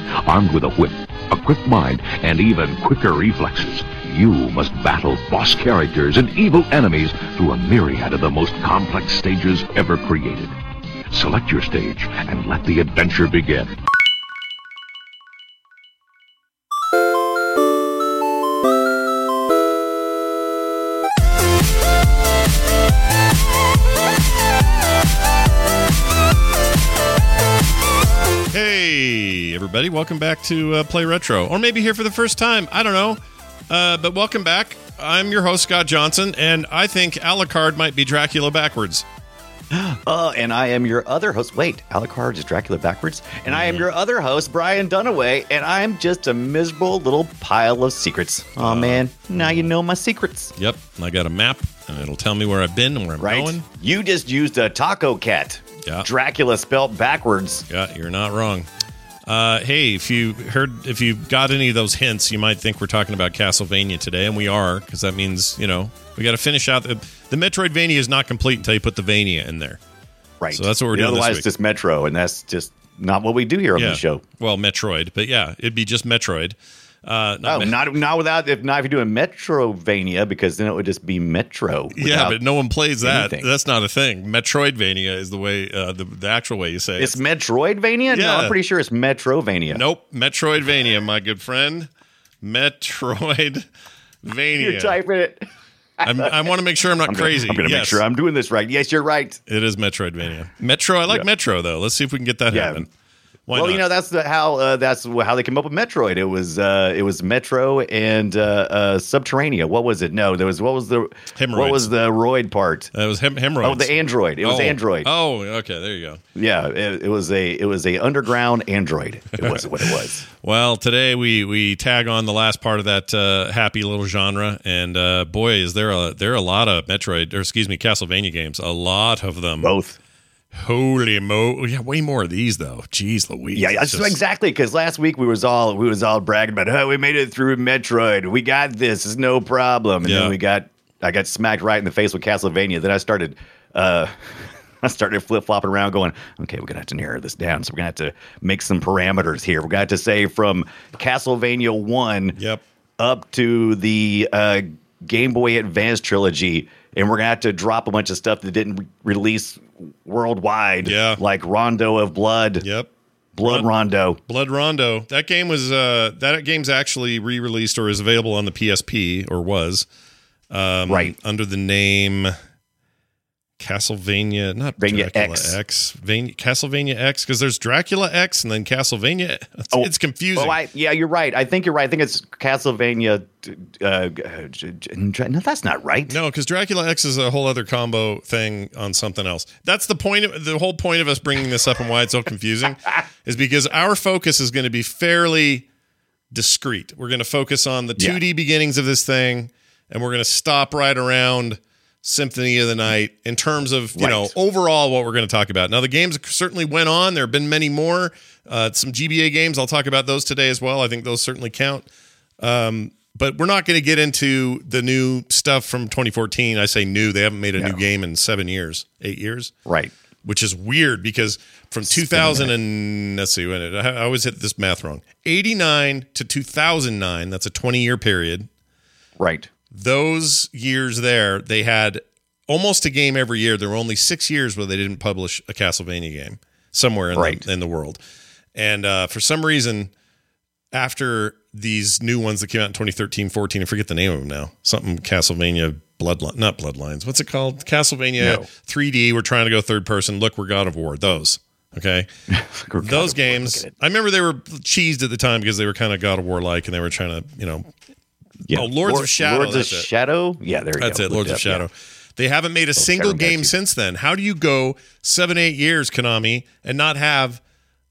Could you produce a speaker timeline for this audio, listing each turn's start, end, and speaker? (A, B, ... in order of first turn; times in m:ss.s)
0:00.2-0:10.5 A
0:11.1-0:13.8 A
0:28.5-0:39.0 B
0:39.7-0:50.5 C
0:43.4-0:43.9 B
0:48.6-0:49.7 B
0:50.6-0:53.6 B
0:53.2-0:57.6 C
0:57.7-0:58.7 B
0:59.2-1:09.8 B
1:10.4-1:14.2 C
1:10.5-1:11.4 B
1:13.7-1:17.8 B
1:17.4-1:22.4 C
1:21.9-1:27.2 B
1:23.0-1:23.5 C
1:27.0-1:29.8 C
1:28.1-1:28.6 B
1:29.7-1:31.9 B
1:32.4-1:33.7 B
1:34.2-1:35.0 B
1:34.6-1:35.4 C
1:36.0-1:36.4 C
1:36.0-1:38.0 B
1:37.0-1:39.4 C
1:39.5-1:42.9 B
1:42.5-1:42.8 C
1:43.5-1:43.8 B
1:43.5-1:52.9 C
1:51.4-1:51.9 B
1:52.9-1:56.2 B
1:53.6-1:55.1 C
1:56.4-2:00.2 C
1:59.4-2:09.7 B
2:09.6-2:10.0 C
2:10.5-2:14.2 B
2:13.5-2:32.4 C
2:20.0-2:20.4 B
2:32.4-2:32.6 B
2:33.0-2:42.6 C
2:40.8-2:41.2 B
2:42.6-2:42.9 B
2:43.4-2:44.2 C
2:43.4-2:43.7 B
2:44.3-2:49.9 B
2:50.5-2:52.3 B
2:50.9-2:51.1 C
2:53.6-3:00.6 B
2:54.8-2:55.6 C
2:59.7-3:06.2 C
3:06.1-3:15.6 B
3:16.3-3:31.9 B
3:24.0-3:24.3 C
3:32.4-3:39.5 B
3:39.6-3:39.9 C
3:40.2-3:48.5 B
3:41.9-3:42.5 C
3:49.2-3:49.5 C
3:49.7-3:58.0 B
3:57.1-3:57.4 C
3:58.5-3:59.9 B
4:00.7-4:12.1 B
4:08.2-4:08.4 C
4:12.3-4:13.7 C
4:12.8-4:17.7 B
4:18.5-4:19.9 B
4:18.5-4:21.6 C
4:20.8-4:27.4 B
4:22.8-4:23.5 C